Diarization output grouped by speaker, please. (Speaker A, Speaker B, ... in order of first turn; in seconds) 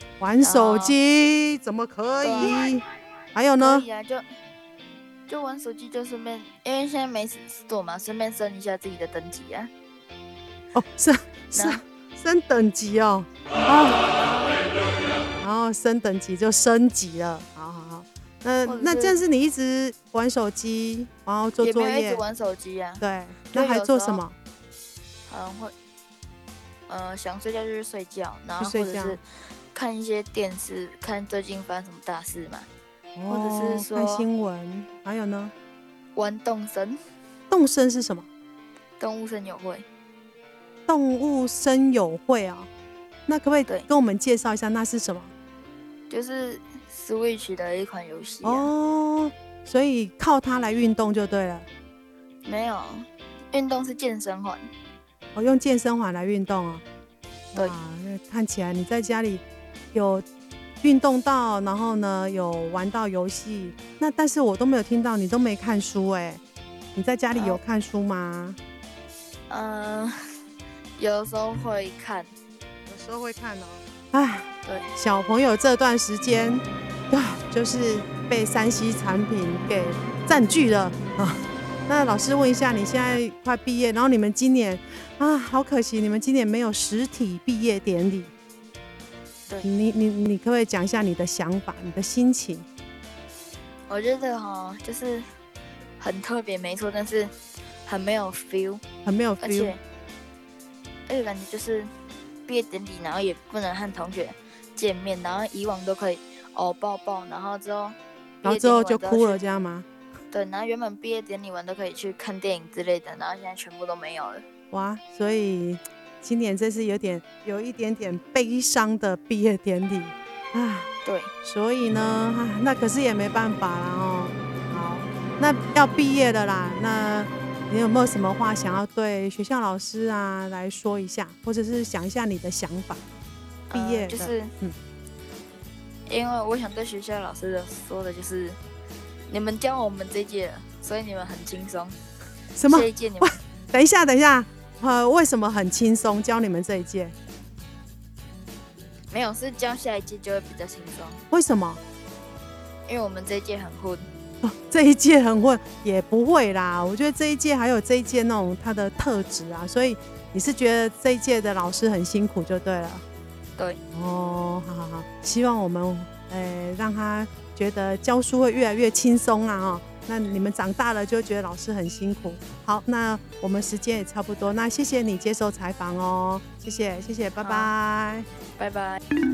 Speaker A: 0.2-3.9, 10.7-14.0, 15.4-22.2, 23.0-24.4, 28.6-29.2, 33.2-35.5, 37.5-38.3, 40.9-42.7, 43.3-45.3, 48.4-51.6, 55.3-56.8, 57.5-60.2, 60.8-66.4, 66.9-68.6, 72.9-88.3, 89.6-92.7, 99.0-99.8, 108.4-109.9, 114.7-120.9, 121.4-133.0, 133.7-134.8, 142.5-147.1, 151.3-151.8, 154.4-163.0, 163.9-178.3
Speaker B: 0.4-1.0, 2.2-2.7, 3.6-4.2, 5.3-9.7, 11.5-11.8, 14.1-14.6, 18.6-19.2, 21.6-24.2, 25.3-25.7, 26.9-32.7, 33.3-34.3, 36.1-37.0, 39.0-39.9, 46.1-48.7, 52.4-54.7, 67.3-67.6, 69.5-70.2, 71.0-72.3, 93.9-95.3, 96.0-97.3, 97.8-98.8, 99.4-99.8, 101.1-101.9, 102.5-109.4, 110.3-114.4, 121.0-121.3, 133.7-134.5, 136.1-138.6, 139.3-142.0, 142.6-143.3, 149.1-151.2, 152.8-154.1, 177.4-177.7, 178.6-179.0